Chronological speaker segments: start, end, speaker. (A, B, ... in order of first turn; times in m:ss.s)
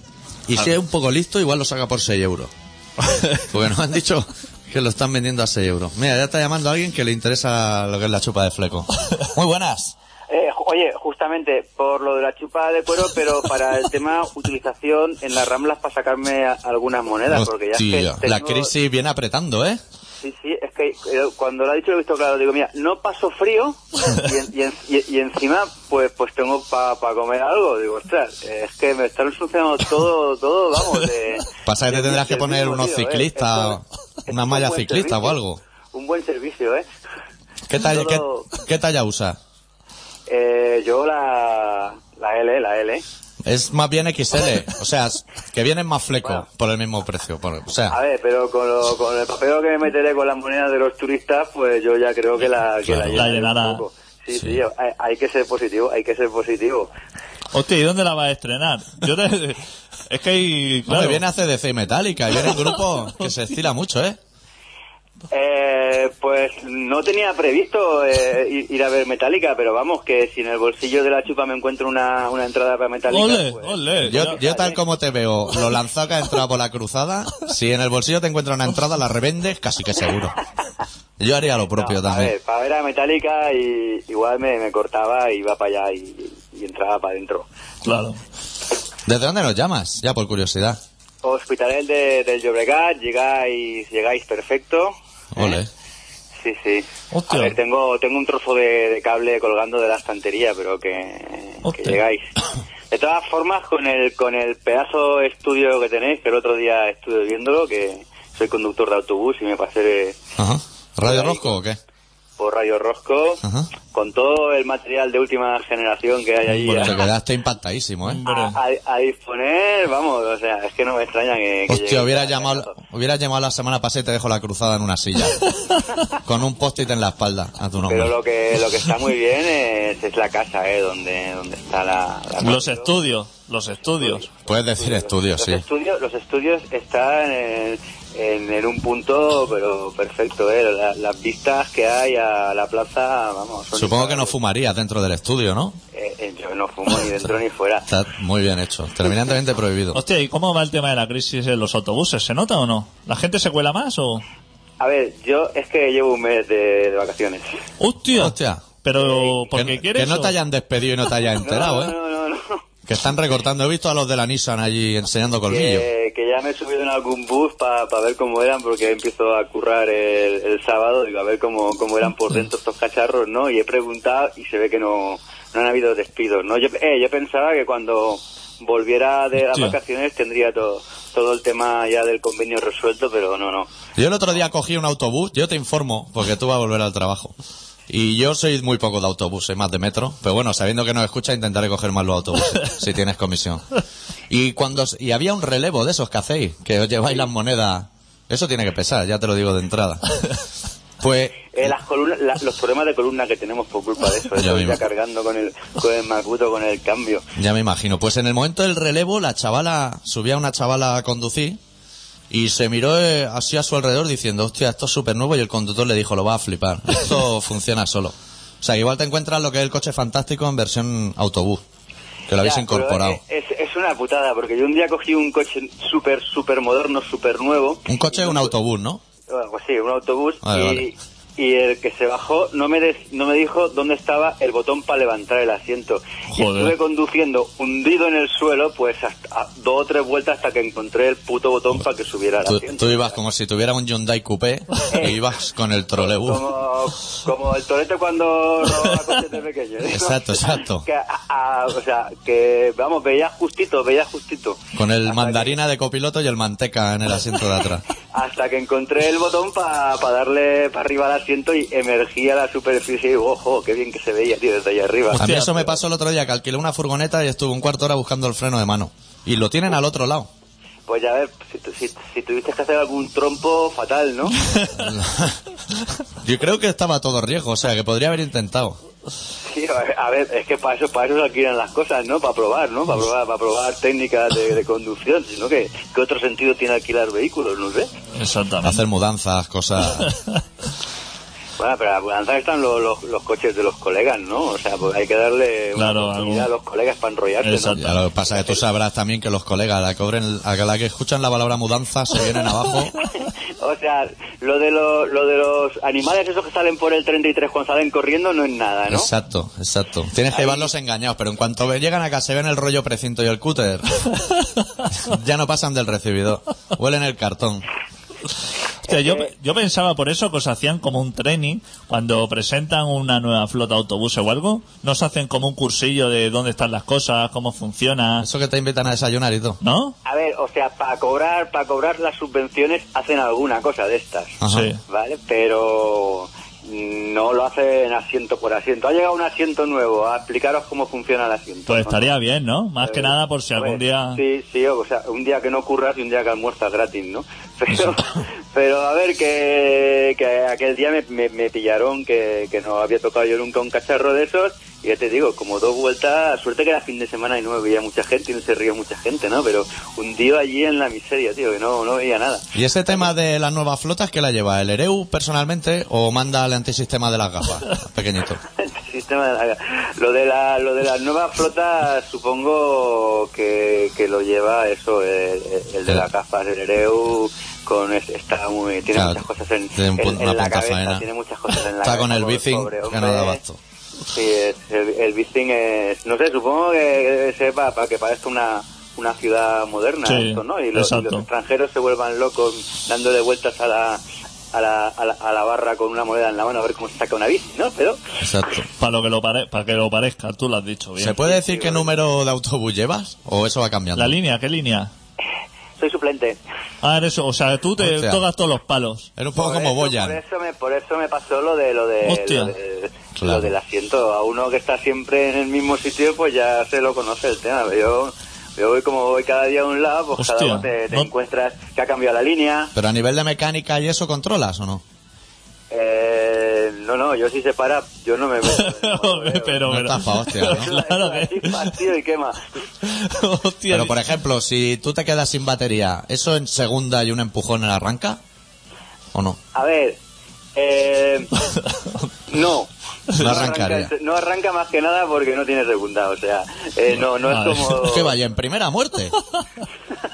0:00.5-0:02.5 A
0:03.0-0:03.4 B
0:03.5-0:09.9 A
0:10.3-0:18.7 C
0:17.3-0:19.8 A
0:20.2-0:35.4 C
0:31.6-0:35.6 A
0:35.9-0:36.8 C
0:37.7-0:39.4 A
0:37.9-0:38.5 C
0:40.3-0:43.0 C
0:43.4-0:48.0 A
0:47.9-0:56.9 C
0:52.8-0:53.3 A
0:53.1-0:53.8 B
0:54.3-0:54.6 A
0:57.5-1:01.2 B
1:00.9-1:04.2 A
1:05.3-1:14.8 C
1:13.1-1:14.4 B
1:14.0-1:20.4 A
1:21.2-1:22.3 A
1:21.8-1:27.4 C
1:27.8-1:28.2 B
1:29.0-1:30.8 A
1:31.2-1:35.6 C
1:35.3-1:35.7 A
1:36.4-1:42.2 C
1:37.1-1:37.6 B
1:41.6-1:42.0 B
1:42.9-1:50.2 C
1:50.4-1:51.8 A
1:51.0-1:51.6 C
1:52.4-1:57.0 C
1:53.4-1:53.7 A
1:56.4-1:57.0 B
1:56.8-1:58.2 A
1:58.0-1:58.6 B
1:58.2-2:02.7 C
2:01.7-2:05.5 A
2:06.2-2:08.1 A
2:07.9-2:12.9 C
2:12.4-2:14.2 B
2:14.0-2:24.3 C
2:14.5-2:15.6 A
2:23.7-2:25.8 A
2:25.9-2:27.9 C
2:27.9-2:30.0 A
2:29.9-2:34.2 B
2:34.8-2:37.4 C
2:37.8-2:40.3 B
2:38.1-2:38.6 A
2:39.0-2:39.4 C
2:39.5-2:41.9 A
2:41.4-2:42.6 C
2:42.9-2:45.9 A
2:45.5-3:03.7 C
2:59.5-2:59.8 B
3:04.0-3:07.3 A
3:07.9-3:13.6 A
3:14.3-3:20.0 A
3:21.0-3:21.7 A
3:21.5-3:27.2 C
3:24.4-3:24.8 A
3:27.4-3:31.6 A
3:32.3-3:41.6 A
3:42.3-3:43.2 A
3:42.4-3:48.5 C
3:47.9-3:49.0 A
3:49.3-4:03.1 C
3:50.4-3:50.9 A
3:56.3-3:56.7 B
4:02.4-4:06.4 A
4:04.9-4:05.2 C
4:06.0-4:15.5 C
4:09.9-4:10.8 A
4:14.7-4:17.8 A
4:18.1-4:25.2 C
4:25.1-4:25.7 B
4:25.1-4:30.3 A
4:30.9-4:34.4 C
4:34.7-4:35.4 A
4:36.2-4:38.8 A
4:39.5-4:47.9 C
4:48.2-4:48.8 B
4:48.6-4:50.1 A
4:51.6-4:58.6 C
4:55.8-4:56.5 B
4:57.4-4:58.0 B
4:57.8-5:02.9 A
5:03.6-5:09.1 C
5:08.9-5:14.1 A
5:10.3-5:10.7 C
5:14.9-5:17.7 A
5:18.8-5:28.3 B
5:28.2-5:29.6 A
5:29.6-5:29.9 B
5:30.0-5:34.4 C
5:34.4-5:34.7 A
5:34.5-5:34.8 B
5:34.9-5:42.1 C
5:41.7-5:44.2 B
5:42.8-6:03.1 C
6:02.5-6:08.4 A
6:08.6-6:23.4 C
6:18.9-6:21.0 A
6:21.8-6:23.6 A
6:24.1-6:34.0 C
6:30.0-6:31.2 B
6:34.5-6:38.0 C
6:38.2-6:38.7 A
6:38.8-6:41.2 B
6:41.0-6:44.2 A
6:41.2-6:41.9 C
6:43.9-6:44.9 B
6:45.8-6:46.4 C
6:46.8-6:49.1 B
6:47.8-6:48.2 A
6:49.2-6:50.2 A
6:49.3-7:02.7 C
6:52.0-6:52.5 B
6:53.2-6:53.5 A
7:00.2-7:01.1 B
7:02.7-7:04.8 A
7:05.7-7:09.7 C
7:08.4-7:11.8 B
7:09.6-7:10.7 A
7:10.4-7:12.4 C
7:12.8-7:14.0 B
7:13.7-7:18.2 A
7:19.1-7:19.4 A
7:19.5-7:20.0 C
7:20.5-7:21.3 C
7:21.6-7:21.9 B
7:22.3-7:28.1 C
7:23.2-7:23.9 A
7:27.2-7:27.8 B
7:27.8-7:29.2 A